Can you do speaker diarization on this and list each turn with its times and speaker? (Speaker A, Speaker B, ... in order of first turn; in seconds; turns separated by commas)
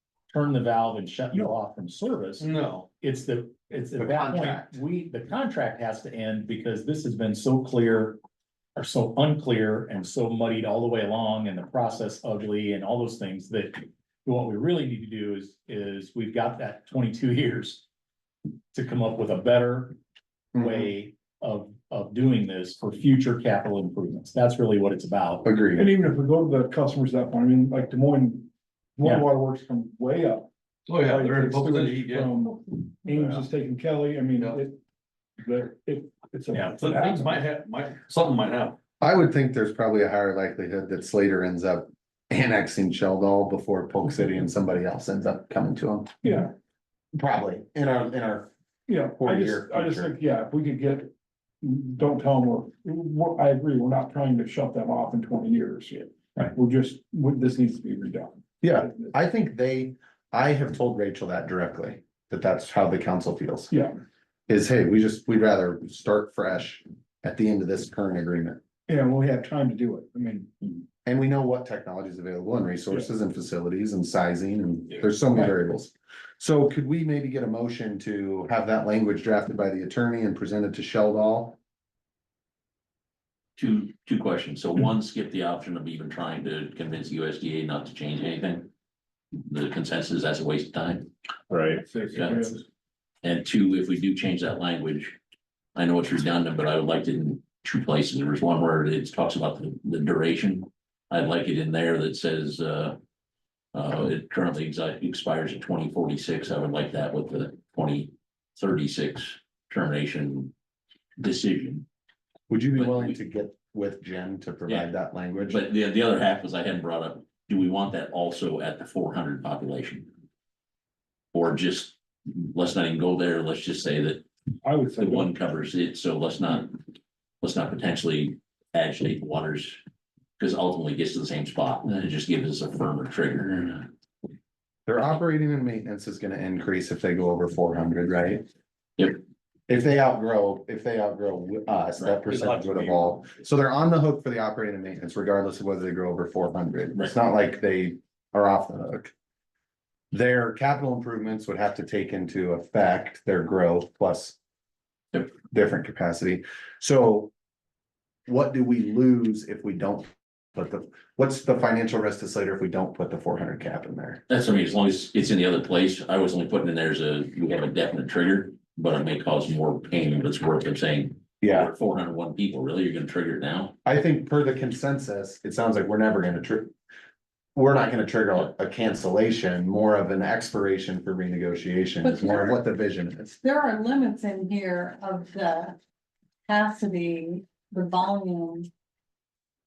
Speaker A: 0.3-2.5, Speaker B: 2.4-2.8, Speaker A: 3.0-8.2, Speaker C: 4.0-4.8, Speaker A: 8.7-17.8, Speaker A: 18.7-19.9, Speaker C: 20.5-20.9, Speaker A: 20.6-25.5, Speaker C: 25.4-25.9, Speaker D: 25.8-34.8, Speaker B: 30.9-32.3, Speaker D: 35.4-37.5, Speaker B: 36.8-38.8, Speaker C: 39.0-46.2, Speaker D: 46.2-46.5, Speaker C: 47.1-48.5, Speaker D: 48.9-59.1, Speaker C: 49.1-50.1, Speaker C: 58.6-63.7, Speaker D: 63.7-64.0, Speaker C: 64.5-68.6, Speaker D: 68.9-70.8, Speaker C: 71.0-81.6, Speaker E: 83.5-88.7, Speaker E: 89.4-91.1, Speaker B: 91.5-91.8, Speaker D: 91.7-92.6, Speaker E: 92.1-92.5, Speaker E: 93.2-95.2, Speaker E: 95.7-103.0, Speaker E: 103.7-110.5, Speaker E: 111.2-111.8, Speaker C: 112.5-115.6, Speaker E: 112.8-113.1, Speaker E: 115.5-120.1, Speaker E: 121.3-124.2, Speaker D: 124.6-125.3, Speaker E: 125.0-126.8, Speaker E: 127.4-129.8, Speaker E: 130.4-133.9, Speaker C: 134.8-138.4, Speaker C: 139.7-149.1, Speaker B: 142.1-142.9, Speaker C: 150.1-154.3, Speaker C: 155.3-157.3, Speaker C: 158.3-164.2, Speaker E: 164.3-173.7, Speaker C: 171.4-171.7, Speaker C: 173.8-176.7, Speaker C: 177.5-183.3, Speaker F: 182.0-182.5, Speaker F: 183.4-185.8, Speaker F: 186.4-188.7